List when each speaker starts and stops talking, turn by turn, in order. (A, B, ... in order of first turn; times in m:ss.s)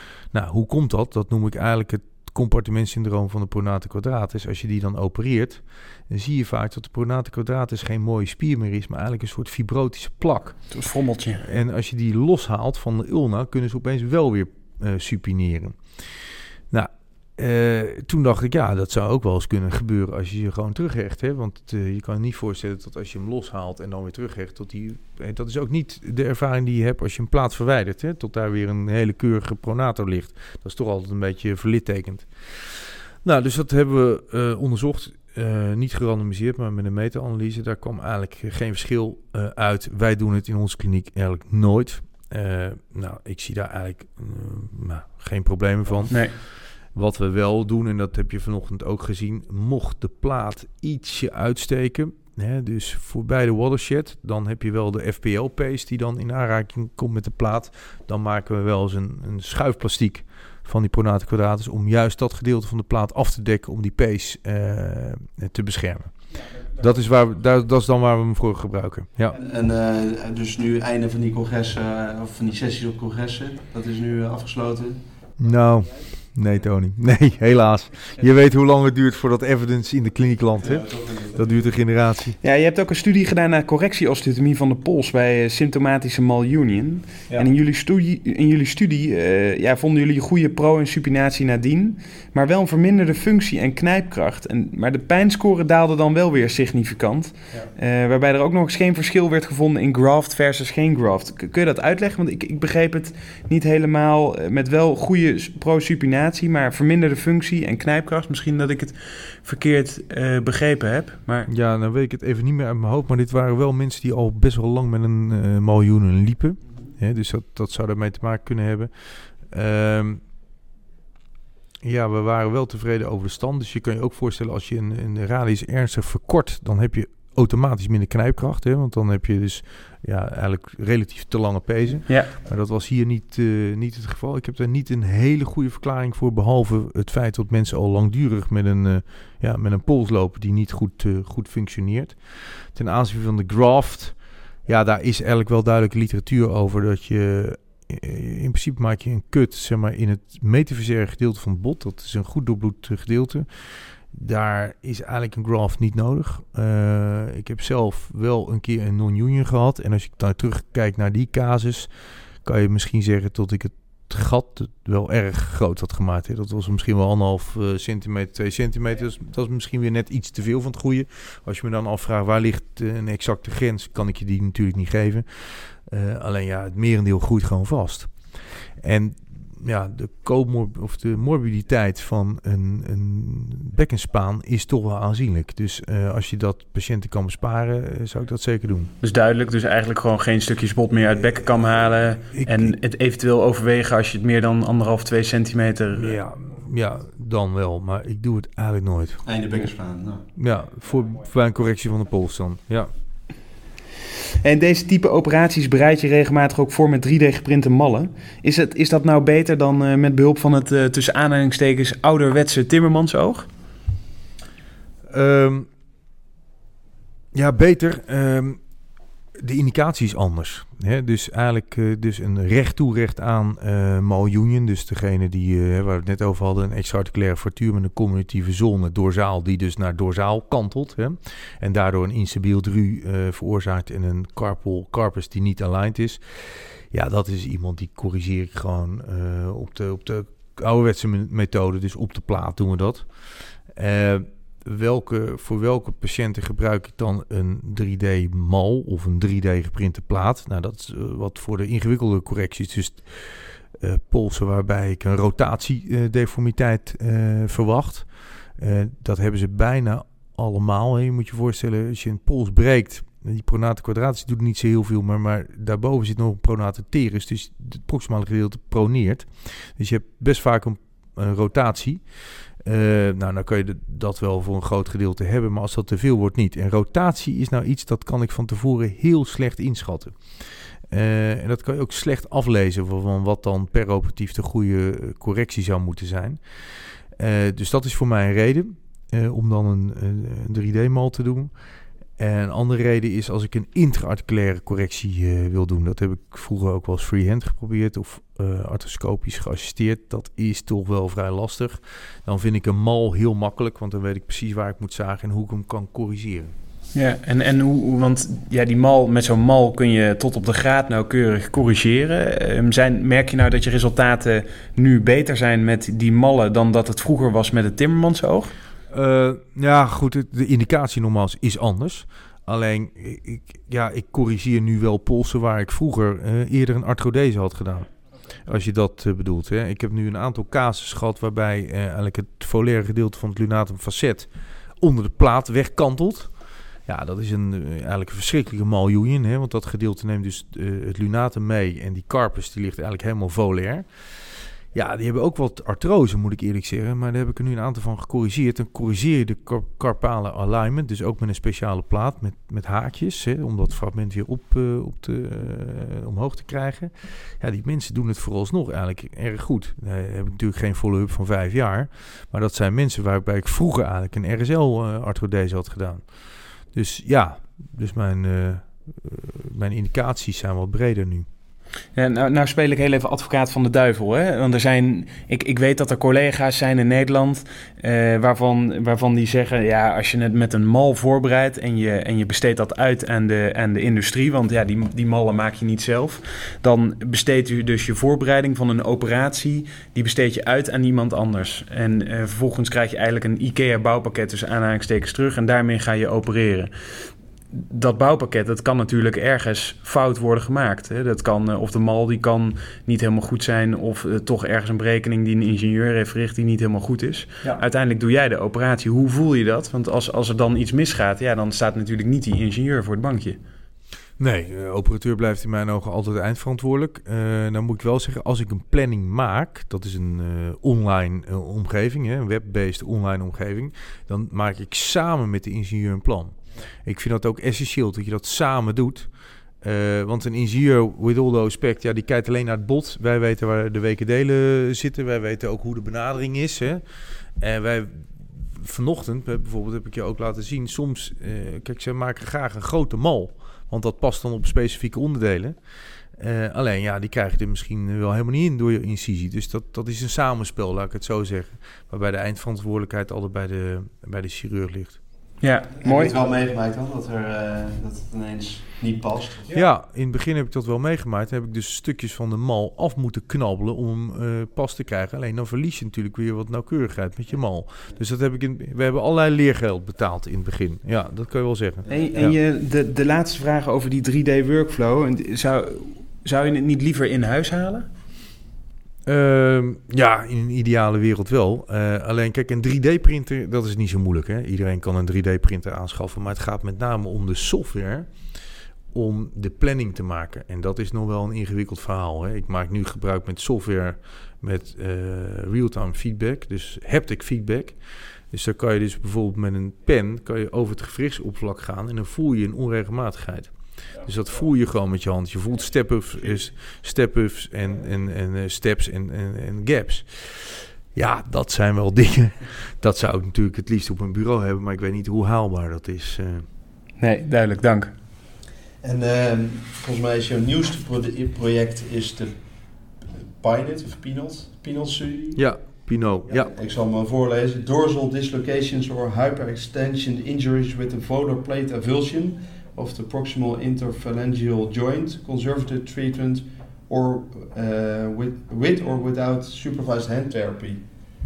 0:00.3-0:10.6 A
0:10.7-0:11.4 B
0:11.4-0:15.8 A
0:16.7-1:06.1 A
1:06.7-1:09.4 A
1:09.3-1:15.0 C
1:15.4-1:22.4 A
1:20.7-1:21.4 C
1:22.4-1:51.5 B
1:51.5-2:00.2 A
2:01.8-2:33.5 A
2:34.1-2:41.9 A
2:42.4-2:58.1 A
2:58.8-3:08.9 A
3:09.0-3:16.2 B
3:12.3-3:12.7 A
3:16.0-3:19.2 A
3:19.2-3:20.2 C
3:20.4-3:22.9 A
3:24.4-3:33.5 B
3:35.1-3:35.7 A
3:37.3-3:38.6 A
3:39.4-4:03.1 A
4:03.7-4:18.1 A
4:18.6-4:32.0 A
4:32.6-4:40.2 A
4:40.9-4:46.4 A
4:47.1-4:51.5 A
4:52.2-5:06.5 A
5:06.9-5:18.5 B
5:18.9-5:27.9 A
5:28.4-5:34.3 A
5:34.8-5:36.3 A
5:36.8-5:43.9 A
5:44.7-6:06.0 A
6:06.7-6:11.3 A
6:11.9-6:36.7 B
6:37.5-6:53.4 B
6:54.2-7:09.1 A
7:09.6-7:16.8 A
7:17.4-7:25.6 A
7:26.2-7:35.0 A
7:35.4-7:36.1 B
7:35.8-7:39.6 C
7:39.5-7:52.4 A
7:51.9-7:57.9 B
7:59.0-8:08.1 A
8:08.9-8:17.8 A
8:18.3-8:36.5 A
8:37.0-8:37.9 B
8:38.8-8:42.4 C
8:43.1-8:45.4 C
8:45.4-8:46.5 A
8:46.3-9:00.8 C